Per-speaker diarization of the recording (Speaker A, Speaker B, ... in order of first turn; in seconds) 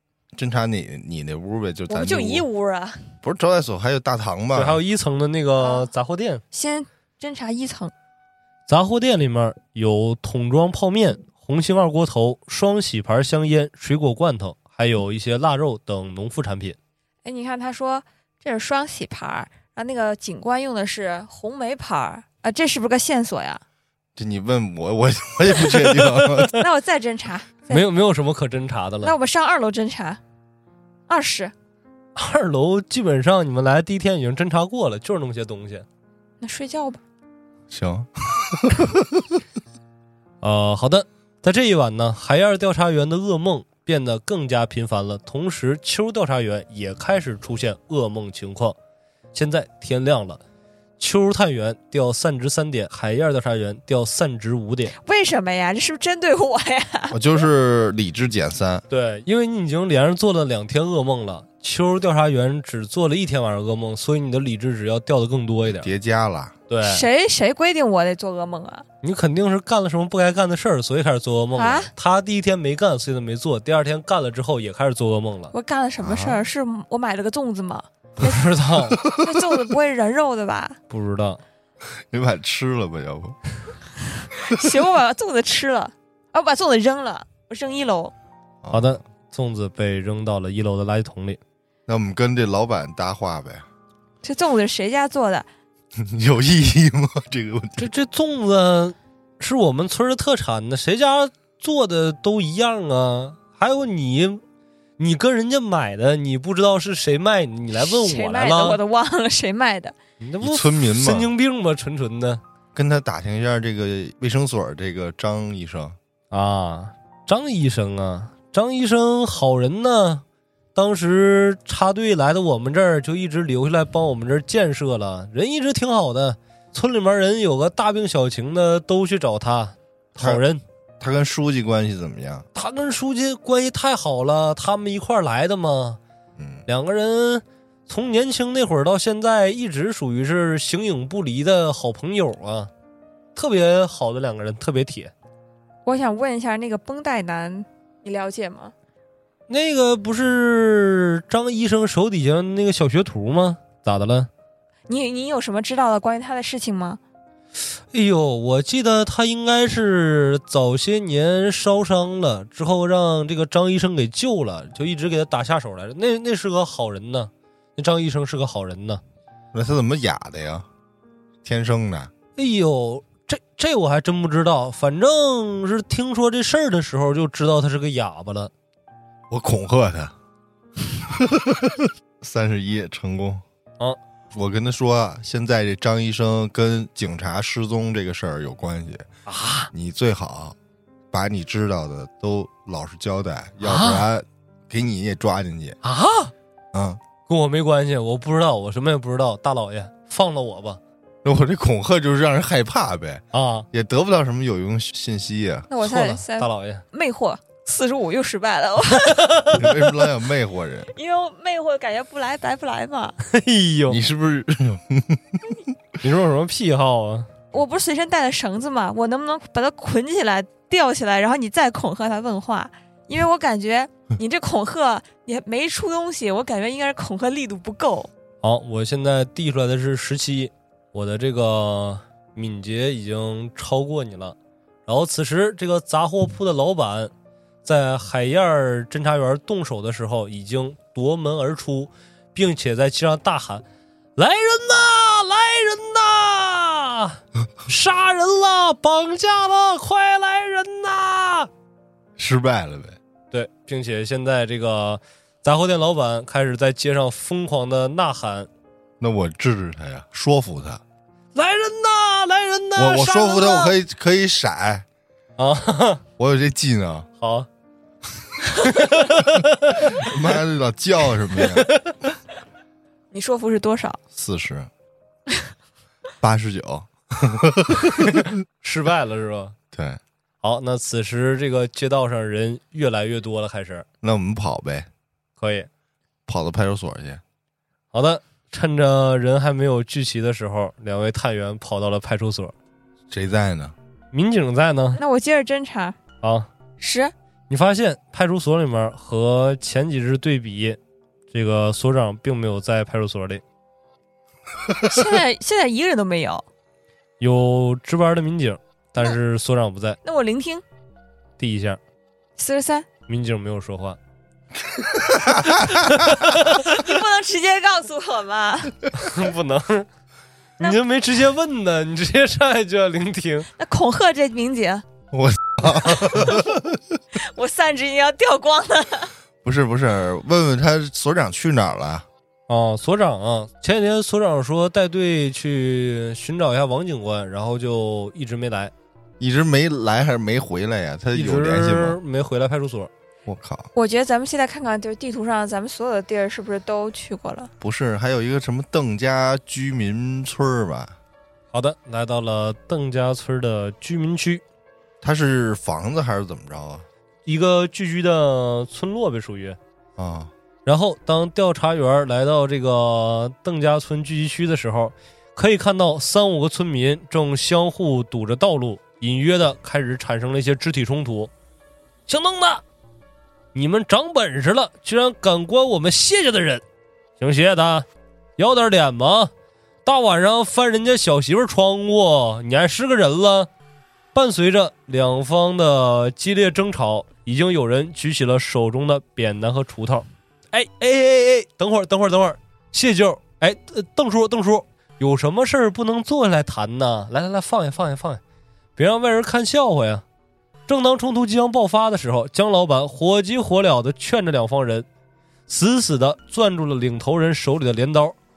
Speaker A: 0.3-2.5, 3.2-4.8, 24.2-26.5, 37.7-39.4, 57.1-58.8, 65.7-66.5, 76.0-76.4, 79.0-79.4, 82.1-83.4, 88.6-89.0, 91.9-93.7, 96.0-97.9, 110.4-111.3, 112.8-116.0, 130.2-130.4, 131.0-132.5, 136.4-136.7, 169.5-170.7, 171.4-172.1, 179.3-180.1, 180.9-183.4, 184.3-189.1, 189.7-190.6, 191.1-195.8, 196.7-197.0, 201.2-205.7, 209.5-210.9, 213.9-215.6, 252.2-253.0, 259.0-260.8, 262.8-264.9, 266.2-267.1, 269.8-271.7, 274.1-274.7, 276.2-278.3, 279.7-280.0, 284.0-284.9, 286.3-287.2, 293.1-293.8, 314.9-316.1, 325.1-326.8, 329.4-332.1, 339.2-342.0, 343.3-343.7, 347.6-351.0, 355.0-356.9, 360.0-360.3
Speaker B: 1.9-3.1, 5.6-5.9, 6.5-7.9, 17.2-23.6, 26.5-27.9, 29.0-30.2, 31.1-31.5, 36.4-37.0, 55.0-57.2, 66.8-68.8, 71.6-71.9, 75.5-78.5, 79.0-80.8, 84.2-88.1, 94.2-95.5, 107.8-110.0, 145.9-148.7, 154.9-157.0, 205.7-209.4, 210.9-213.2, 217.5-228.1, 263.4-263.7, 273.1-274.0, 295.0-296.0, 296.8-297.1, 304.8-306.4, 310.0-310.6, 312.4-312.9, 316.4-318.9, 323.6-324.8, 325.9-326.5, 327.1-329.1, 343.8-347.5
Speaker C: 4.5-6.4, 8.7-16.8, 25.6-26.6, 27.7-29.1, 32.2-35.9, 40.4-48.8, 49.3-50.4, 51.0-55.0, 58.9-65.9, 66.7-67.1, 69.0-75.5, 78.2-79.0, 80.9-81.4, 88.7-91.4, 97.8-104.4, 105.0-108.8, 110.2-112.4, 116.3-120.2, 120.8-130.6, 132.6-136.0, 136.7-142.7, 143.3-145.1, 149.5-154.3, 157.9-169.0, 172.4-178.5, 189.3-189.7, 193.6-194.1, 195.8-196.3, 197.3-200.8, 203.3-203.7, 205.8-206.8, 208.9-209.7, 213.3-214.0, 216.0-217.3, 228.4-234.4, 234.9-237.1, 237.6-243.6, 244.2-251.5, 253.3-258.5, 261.4-263.6, 265.4-266.0, 267.2-267.5, 268.6-270.1, 271.4-271.9, 278.0-279.6, 280.4-283.9, 285.4-285.7, 287.9-292.6, 294.1-295.0, 296.2-296.5, 297.5-300.8, 301.3-303.4, 307.2-310.0, 311.4-311.8, 313.1-314.0, 315.6-316.8, 318.9-319.9, 320.6-323.5, 332.5-338.7, 341.1-342.9, 351.5-354.4, 357.3-359.6, 360.7-371.3, 372.1-372.6, 373.5-376.6, 377.2-377.9, 378.4-379.3, 379.9-383.5, 384.1-398.2, 398.8-400.0, 400.7-404.9, 405.5-408.2